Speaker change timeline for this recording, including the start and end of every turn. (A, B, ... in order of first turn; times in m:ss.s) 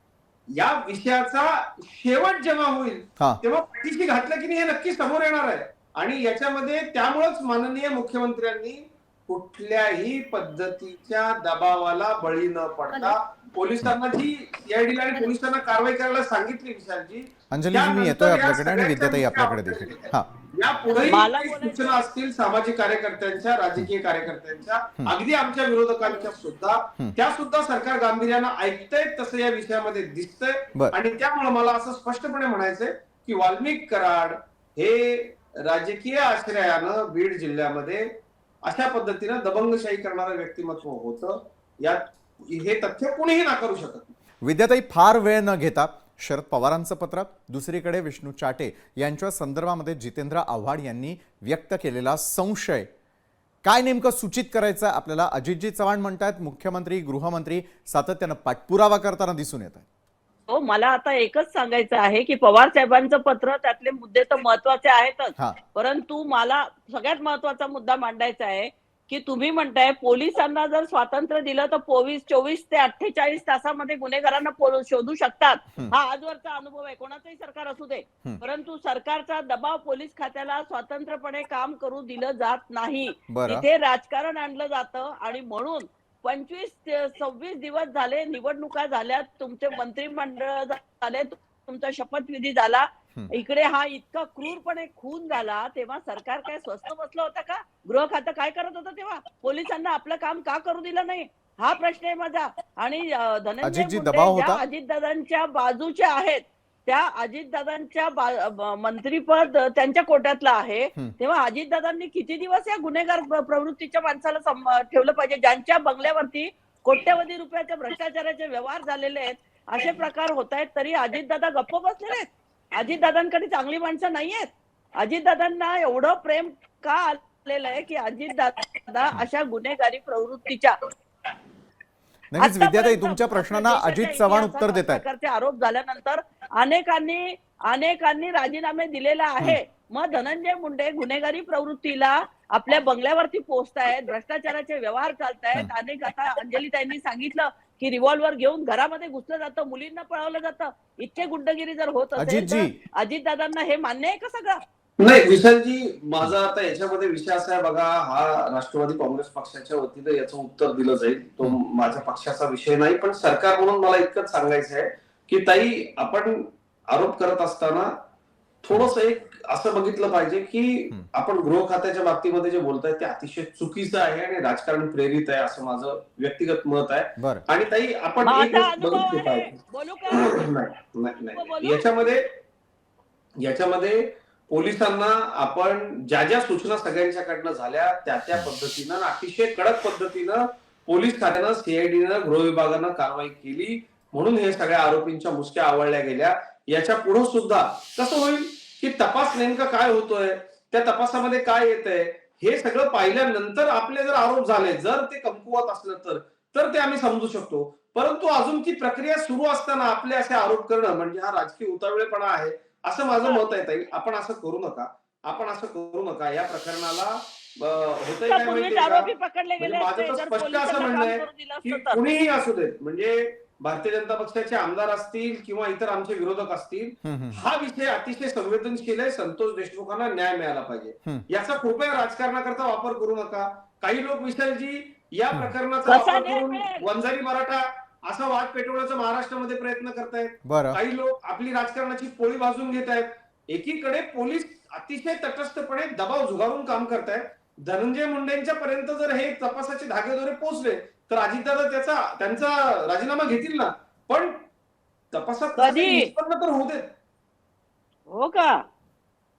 0:00.5-0:44.1 A
0:17.5-0:20.3 B
0:20.9-0:22.0 C
0:44.4-0:52.9 B
0:53.6-0:59.8 B
1:00.5-2:10.8 C
1:23.3-1:23.6 B
1:43.6-1:44.6 B
2:12.3-2:15.0 B
2:12.4-2:34.6 C
2:32.2-2:32.8 B
2:35.0-2:47.9 A
2:48.6-2:59.6 A
2:57.2-2:57.4 B
2:58.2-3:00.4 C
3:00.1-3:02.3 A
3:01.3-3:02.2 C
3:03.4-4:14.4 A
3:38.2-3:42.2 C
3:47.0-3:47.4 B
3:55.8-3:56.8 C
4:00.4-4:00.8 B
4:15.1-4:16.9 A
4:15.6-4:16.1 C
4:18.1-4:18.6 C